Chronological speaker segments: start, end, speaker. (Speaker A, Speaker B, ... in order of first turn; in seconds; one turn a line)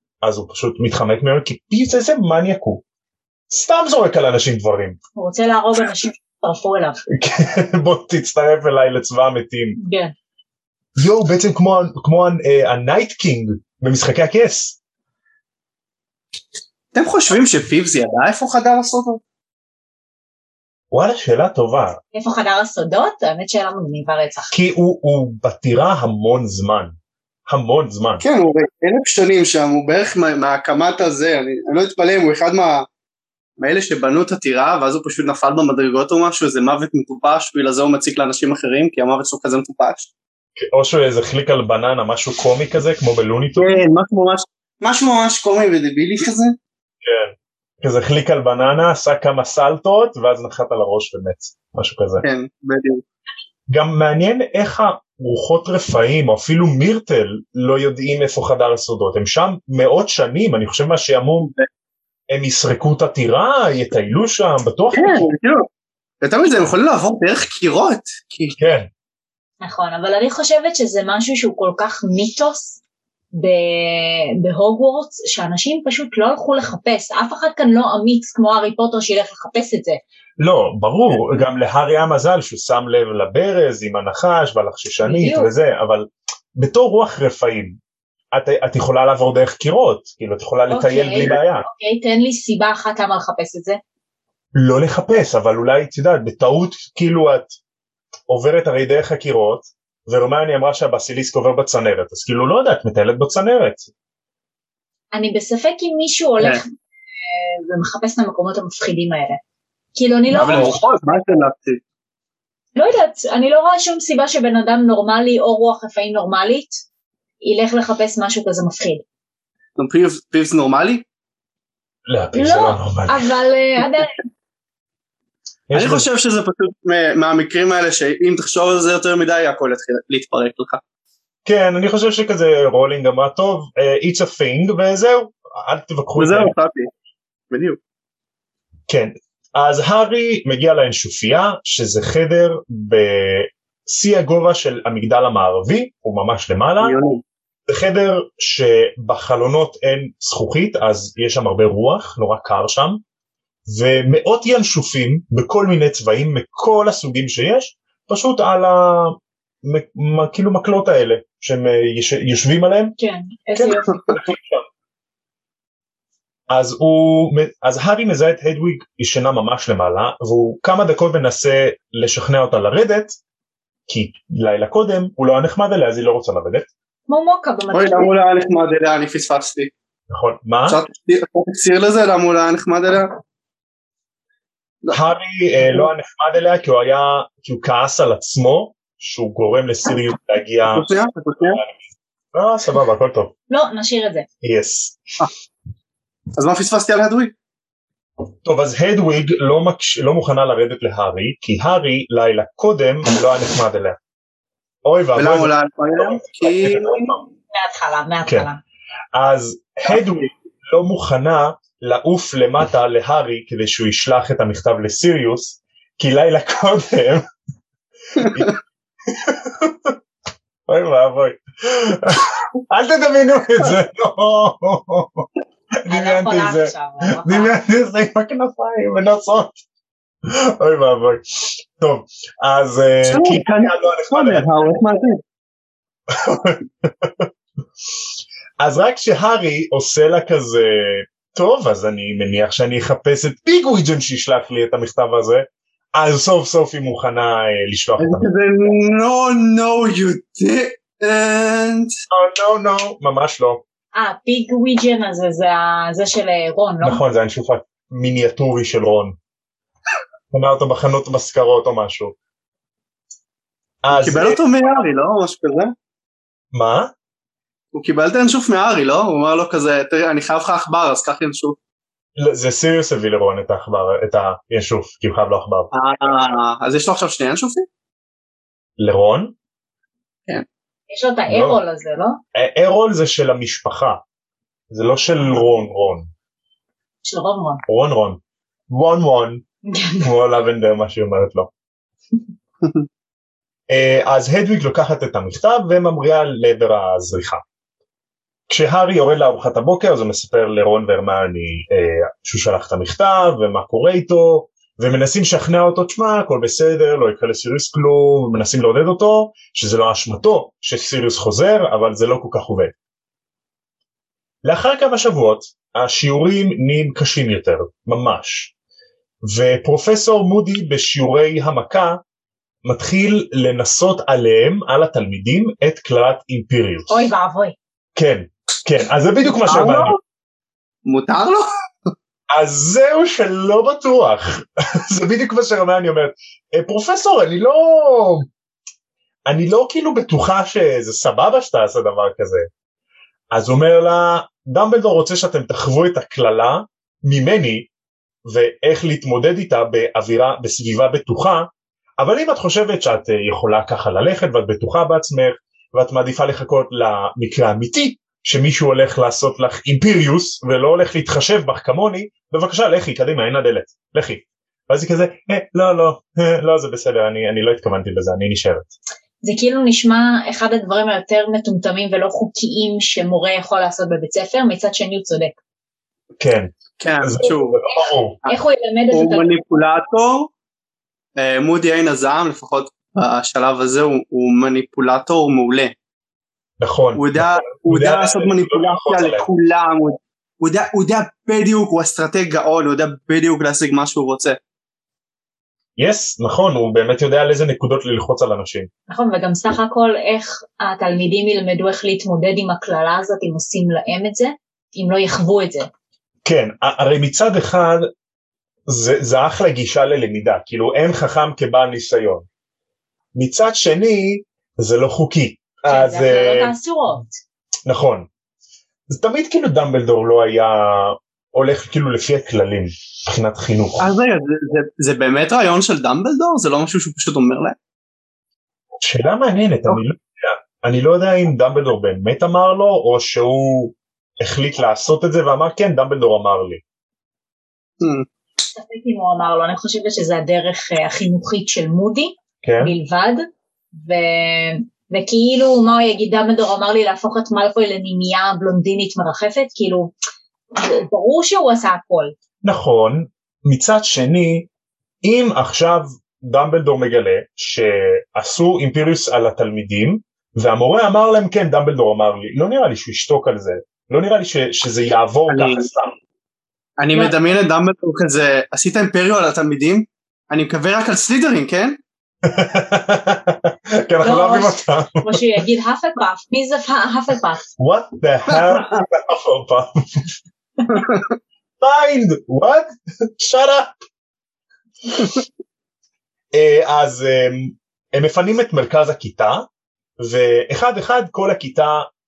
Speaker A: 0.2-2.8
Speaker A: 3.5-5.0
Speaker B: 5.2-7.0
Speaker A: 7.1-9.8
Speaker B: 9.8-10.1
Speaker A: 11.0-14.8
Speaker C: 16.9-19.2
Speaker A: 20.9-22.0
Speaker B: 22.1-24.5
Speaker A: 24.5-26.9
Speaker A: 27.5-28.2
Speaker C: 28.2-32.9
Speaker C: 33.6-40.1
Speaker A: 40.6-43.8
Speaker C: 43.6-46.6
Speaker A: 47.0-52.2
Speaker C: 52.2-53.0
Speaker A: 53.7-61.5
Speaker A: 62.3-65.3
Speaker C: 64.9-65.7
Speaker C: 66.2-68.5
Speaker A: 68.6-68.9
Speaker B: 69.6-72.8
Speaker B: 73.3-80.0
Speaker A: 80.4-87.8
Speaker B: 85.0-85.5
Speaker A: 88.3-91.7
Speaker B: 90.7-93.8
Speaker A: 94.5-97.5
Speaker A: 98.3-103.9
Speaker B: 105.1-106.7
Speaker B: 107.3-109.4
Speaker B: 109.9-110.8
Speaker C: 110.3-111.8
Speaker B: 112.8-116.8
Speaker B: 117.4-119.0
Speaker C: 119.8-121.0
Speaker A: 122.1-123.2
Speaker B: 122.3-124.1
Speaker A: 125.7-126.1
Speaker C: 125.7-130.8
Speaker A: 131.4-136.5
Speaker C: 136.2-136.9
Speaker C: 137.5-137.8
Speaker A: 138.9-146.9
Speaker C: 146.8-147.2
Speaker A: 147.7-153.0
Speaker A: 153.7-162.9
Speaker B: 163.0-163.9
Speaker A: 163.6-164.6
Speaker A: 166.5-173.2
Speaker A: 173.9-176.7
Speaker B: 177.1-178.1
Speaker C: 177.7-179.7
Speaker A: 180.1-180.8
Speaker C: 180.7-183.2
Speaker A: 184.9-190.8
Speaker C: 190.7-191.6
Speaker A: 192.3-193.3
Speaker B: 193.5-194.3
Speaker A: 194.4-195.0
Speaker C: 196.4-197.3
Speaker A: 198.4-204.0
Speaker A: 204.8-207.2
Speaker C: 205.2-207.1
Speaker B: 207.5-208.6
Speaker A: 209.1-217.2
Speaker A: 218.2-220.0
Speaker A: 220.7-225.3
Speaker A: 225.8-229.6
Speaker B: 225.9-227.5
Speaker A: 230.2-234.5
Speaker C: 233.1-235.2
Speaker A: 236.1-237.3
Speaker A: 238.6-248.3
Speaker C: 248.0-251.9
Speaker A: 252.1-253.6
Speaker B: 253.9-257.0
Speaker A: 256.8-259.2
Speaker A: 260.3-262.1
Speaker A: 263.8-264.4
Speaker C: 263.9-265.7
Speaker A: 266.5-266.9
Speaker C: 267.7-271.6
Speaker A: 272.1-275.7
Speaker C: 275.7-277.6
Speaker A: 278.8-279.3
Speaker B: 280.9-282.2
Speaker A: 281.3-281.6
Speaker A: 282.3-284.0
Speaker A: 284.7-286.1
Speaker B: 287.0-287.6
Speaker A: 287.7-289.4
Speaker B: 289.6-290.1
Speaker A: 290.0-291.5
Speaker A: 293.7-297.4
Speaker A: 298.5-312.7
Speaker A: 314.4-318.5
Speaker A: 319.2-322.0
Speaker A: 322.6-327.0
Speaker B: 326.9-327.5
Speaker A: 327.9-330.0
Speaker C: 329.2-330.0
Speaker C: 330.9-331.5
Speaker A: 332.3-338.3
Speaker A: 339.2-342.5
Speaker A: 343.3-347.7
Speaker A: 348.2-368.7
Speaker B: 369.2-375.4
Speaker A: 376.2-378.2
Speaker C: 376.8-377.6
Speaker B: 378.2-379.4
Speaker C: 378.9-380.3
Speaker C: 381.2-385.7
Speaker A: 386.6-389.2
Speaker C: 386.9-394.4
Speaker A: 395.8-398.7
Speaker B: 398.9-405.7
Speaker A: 406.2-407.9
Speaker A: 408.7-412.3
Speaker A: 413.1-416.5
Speaker B: 415.7-417.1
Speaker A: 417.6-418.1
Speaker A: 418.9-423.9
Speaker C: 423.8-427.6
Speaker A: 428.8-436.6
Speaker C: 437.8-438.1
Speaker B: 438.5-449.9
Speaker A: 442.4-442.7
Speaker B: 450.5-452.1
Speaker A: 452.4-454.5
Speaker A: 455.0-465.9
Speaker C: 465.3-465.7
Speaker C: 466.8-471.8
Speaker A: 472.2-475.2
Speaker B: 474.0-477.4
Speaker A: 477.6-480.1
Speaker C: 478.3-478.6
Speaker C: 480.7-481.0
Speaker A: 481.6-483.8
Speaker A: 486.3-491.9